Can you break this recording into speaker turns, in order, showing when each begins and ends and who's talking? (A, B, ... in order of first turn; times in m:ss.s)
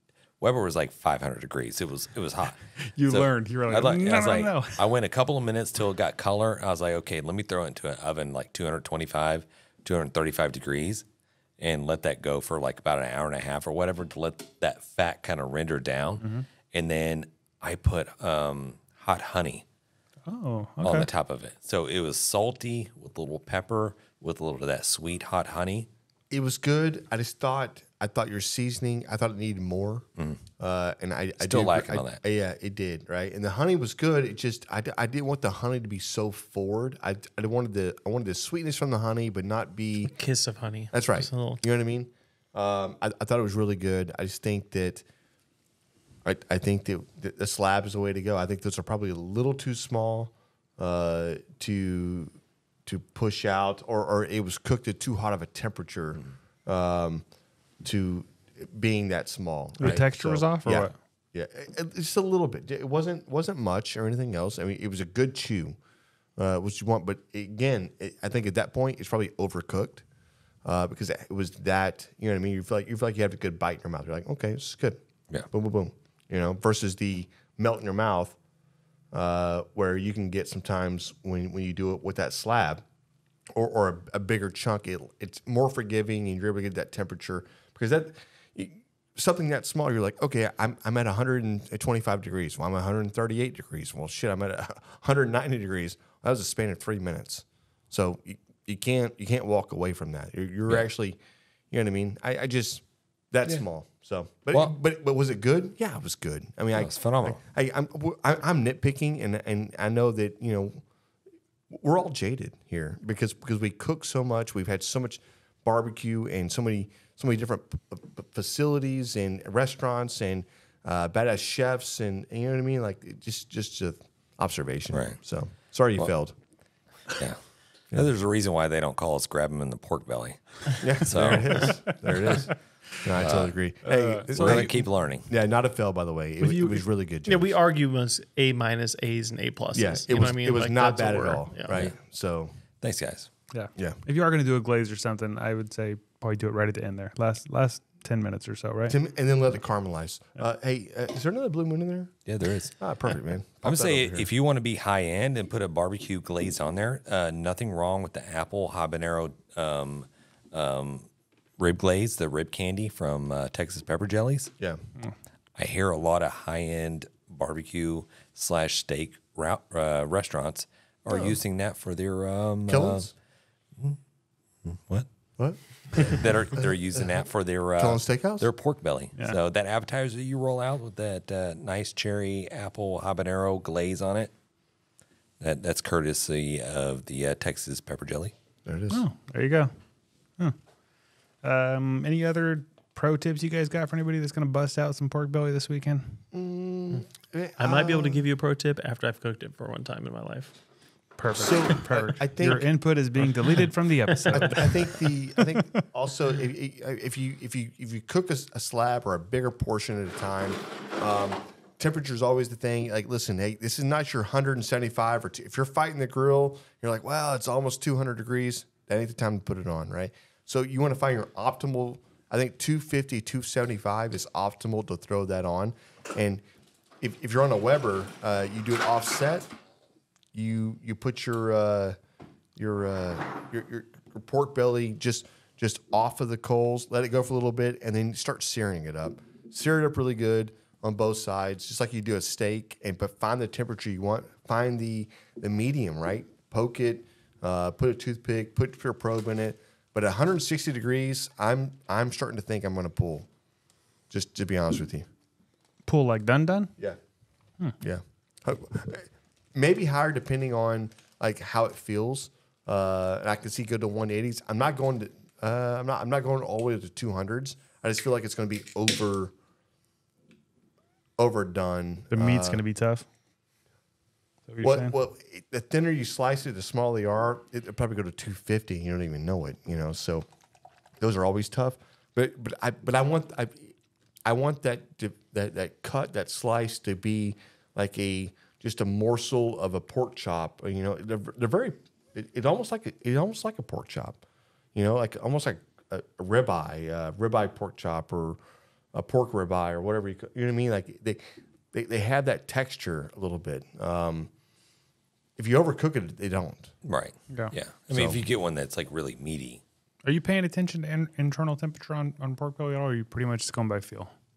0:00.4-0:11.0 A
0:02.8-0:04.8 B
0:11.6-0:19.6 A
0:20.3-0:21.1 B
0:20.8-0:25.9 A
0:26.3-0:30.1 C
0:30.6-0:40.1 C
0:31.4-0:32.2 A
0:40.0-0:41.6 D
0:40.9-0:45.0 C
0:46.2-0:52.3 C
0:52.8-0:57.2 C
0:57.8-1:05.8 C
0:59.8-1:00.9 B
1:06.4-1:10.0 C
1:10.6-1:18.4 C
1:19.1-1:22.8 C
1:23.6-1:41.2 C
1:41.7-1:50.8 C
1:46.7-1:47.4 A
1:51.7-2:06.4 C
2:04.9-2:05.2 A
2:07.9-2:12.4 A
2:10.8-2:17.5 C
2:11.5-2:11.9 B
2:13.2-2:13.5 A
2:13.8-2:14.3 B
2:14.3-2:15.3 A
2:16.4-2:16.8 B
2:17.2-2:21.8 D
2:19.7-2:22.5 C
2:22.8-2:23.3 A
2:23.5-2:28.9 B
2:28.9-2:32.1 C
2:32.2-2:32.8 A
2:32.8-2:34.3 C
2:33.6-2:41.1 A
2:41.6-2:44.5 A
2:45.6-2:53.1 A
2:51.1-2:51.4 C
2:52.7-2:53.1 C
2:54.6-2:55.1 A
2:55.4-2:56.7 C
2:55.9-3:04.3 A
2:57.8-2:58.5 C
3:05.4-3:08.3 A
3:08.6-3:09.0 C
3:08.9-3:09.7 B
3:11.4-3:16.2 B
3:16.3-3:18.3 C
3:17.6-3:20.5 D
3:21.2-3:25.8 B
3:21.3-3:22.8 C
3:24.1-3:24.8 D
3:24.3-3:46.4 C
3:47.0-3:49.5 C
3:50.3-3:52.0 C
3:52.6-4:13.3 C
4:14.1-4:15.1 C
4:15.8-4:16.7 B
4:17.8-4:29.3 C
4:31.2-4:32.6 C
4:32.1-4:33.0 B
4:34.5-4:35.0 B
4:34.6-4:40.3 C
4:41.0-4:43.7 C
4:44.2-4:54.2 C
4:54.7-4:58.4 C
4:58.9-5:01.2 C
5:01.7-5:04.3 C
5:05.4-5:06.7 C
5:06.8-5:09.6 A
5:07.9-5:08.2 C
5:10.0-5:14.1 B